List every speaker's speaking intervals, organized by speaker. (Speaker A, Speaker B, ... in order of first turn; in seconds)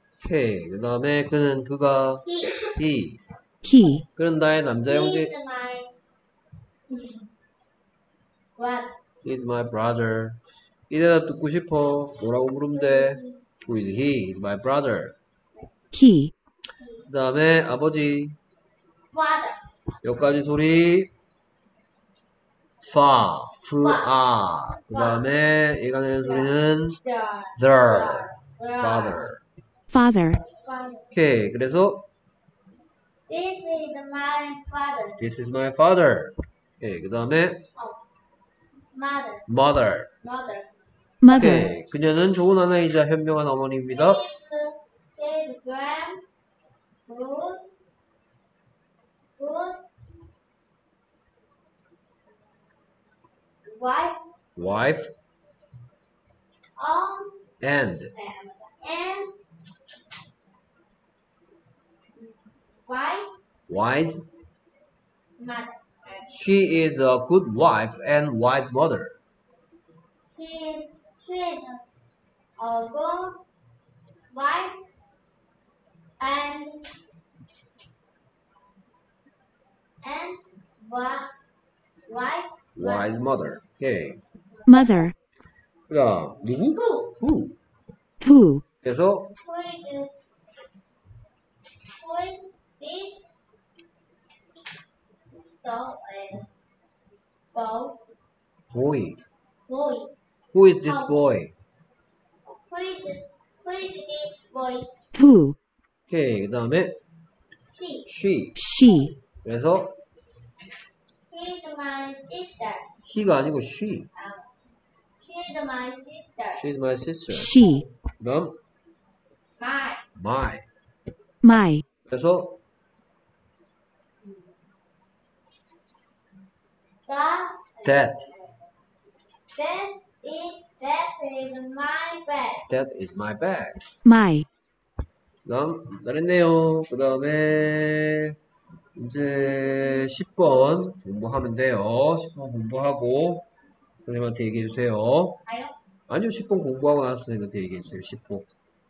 Speaker A: 0.2-3.2, 4.2-5.3, 9.2-15.2, 17.1-18.4, 20.0-21.1, 22.8-27.0, 27.6-29.4, 31.1-32.0, 35.2-37.6, 39.5-40.1, 41.3-44.2, 54.6-55.1, 57.6-58.1, 63.7-64.2, 66.3-69.2, 82.8-84.2, 85.9-87.6, 88.8-89.3, 98.7-99.2, 100.5-101.5, 106.1-107.0, 108.1-108.7, 109.4-110.0, 113.0-114.1, 116.5-118.6, 120.2-120.7, 122.1-122.6, 127.8-128.3, 132.7-133.8, 135.4-138.3, 139.0-143.5, 144.1-145.4, 146.1-148.5
Speaker B: 2.2-2.8, 4.8-6.0, 6.9-7.3, 8.6-8.9, 12.2-13.4, 19.1-19.6, 23.8-24.1, 24.9-25.3, 26.2-29.2, 30.6-31.1, 33.3-35.2, 38.9-39.5, 40.2-40.7, 43.9-46.2, 47.1-47.7, 49.4-49.8, 53.6-54.2, 56.8-57.4, 58.1-59.3, 62.2-63.4, 65.4-66.3, 70.3-71.8, 72.6-73.4, 74.3-74.8, 76.2-76.9, 80.0-81.3, 82.1-83.1, 84.6-85.1, 86.7-87.1, 89.4-90.1, 92.0-93.3, 95.6-96.5, 97.5-98.0, 99.7-100.1, 100.8-101.2, 102.7-104.9, 107.7-108.1, 111.3-112.9, 114.2-114.5, 115.2-116.6, 119.6-120.0, 127.1-128.5, 129.5-132.7, 145.5-145.8
Speaker C: 3.6-4.0, 15.9-16.3, 29.9-30.4, 41.2-41.6, 84.7-85.1, 88.2-88.6, 105.2-105.6, 108.6-109.1, 117.5-117.8, 121.4-121.8, 134.1-134.5